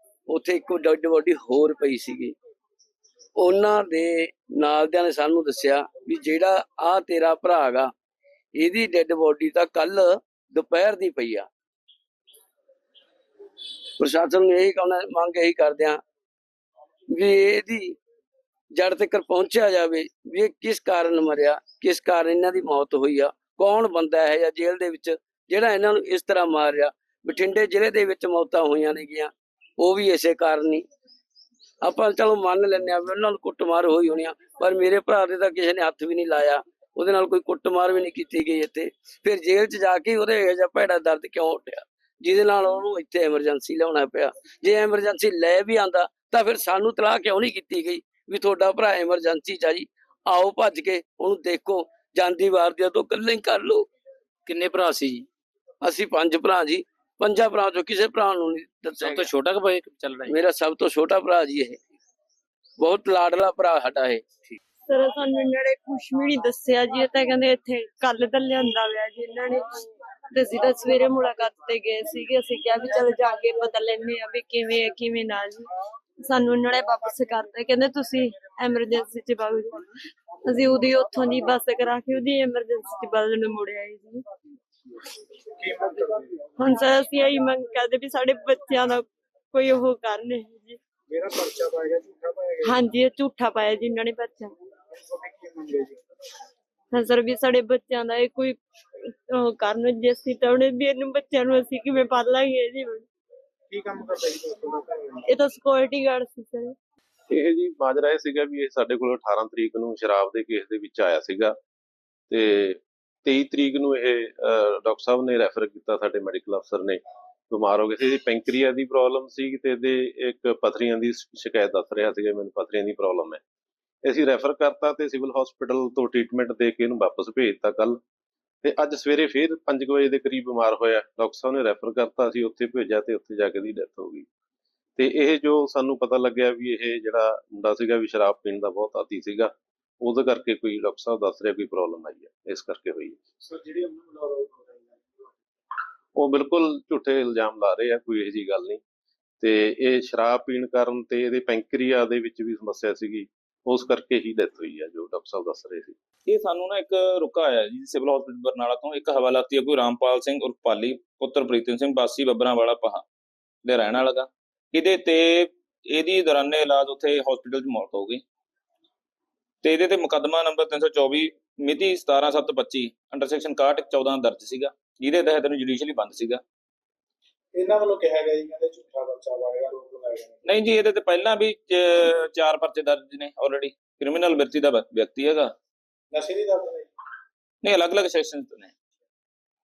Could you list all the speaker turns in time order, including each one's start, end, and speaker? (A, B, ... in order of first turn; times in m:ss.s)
0:00.3-0:02.3 A
0:03.4-0:07.9 A
0:08.6-0:11.5 A
0:14.0-0:16.0 A
0:17.1-0:18.0 A
0:18.7-0:30.8 A
0:31.8-0:53.9 A
0:54.5-0:55.3 B
0:55.8-0:59.3 A
0:59.0-1:00.4 B
1:00.3-1:01.8 A
1:02.8-1:04.2 A
1:04.9-1:15.7 C
1:16.2-1:19.8 C
1:20.4-1:24.2 C
1:25.6-1:26.4 D
1:26.6-1:30.8 C
1:31.1-1:32.8 D
1:32.6-1:34.5 C
1:35.1-1:36.0 D
1:36.9-1:43.1 C
1:43.7-1:45.2 D
1:45.3-1:46.7 C
1:47.3-1:51.6 E
1:52.3-2:03.4 E
2:04.0-2:08.0 E
2:08.6-2:14.3 E
2:15.0-2:23.2 E
2:23.4-2:25.0 D
2:26.2-2:28.8 E
2:29.4-2:36.0 E
2:36.3-2:43.0 F
2:43.7-2:48.2 F
2:49.6-2:56.4 F
2:57.6-3:00.4 D
3:00.5-3:05.5 F
3:06.1-3:06.9 D
3:07.6-3:08.7 F